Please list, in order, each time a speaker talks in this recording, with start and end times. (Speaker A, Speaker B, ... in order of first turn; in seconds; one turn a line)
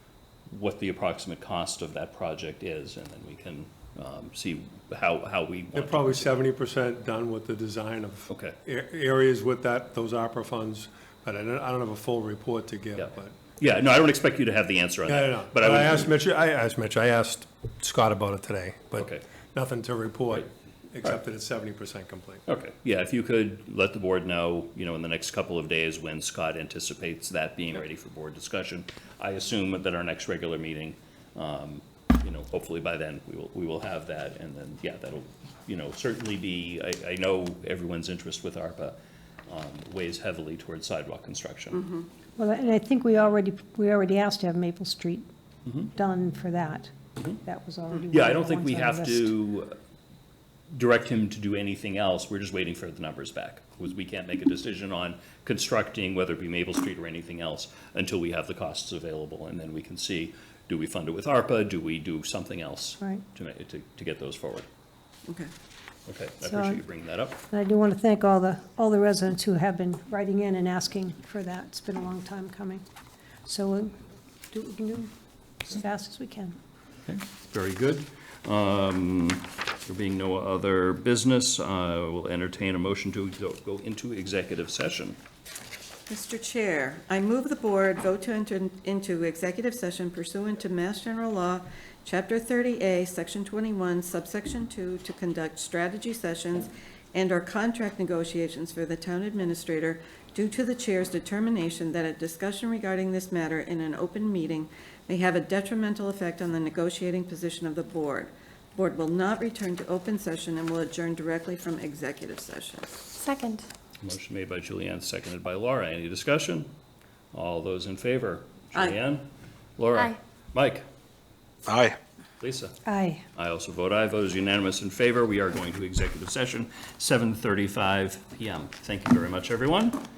Speaker A: 0.5-6.4
Speaker B: 5.8-13.4
Speaker A: 8.3-8.6
Speaker A: 13.0-16.1
Speaker B: 15.1-22.4
Speaker A: 19.0-19.2
Speaker A: 22.5-39.0
Speaker A: 39.5-41.9
Speaker C: 42.4-45.3
Speaker A: 45.7-45.9
Speaker C: 46.0-49.4
Speaker A: 48.1-49.8
Speaker A: 50.7-64.7
Speaker A: 66.1-67.4
Speaker C: 66.4-66.8
Speaker C: 67.5-72.8
Speaker C: 73.5-74.0
Speaker C: 74.5-76.6
Speaker A: 77.0-85.2
Speaker D: 86.1-113.0
Speaker A: 114.0-116.7
Speaker A: 117.3-120.8
Speaker A: 122.4-122.8
Speaker C: 122.9-123.2
Speaker A: 123.4-130.0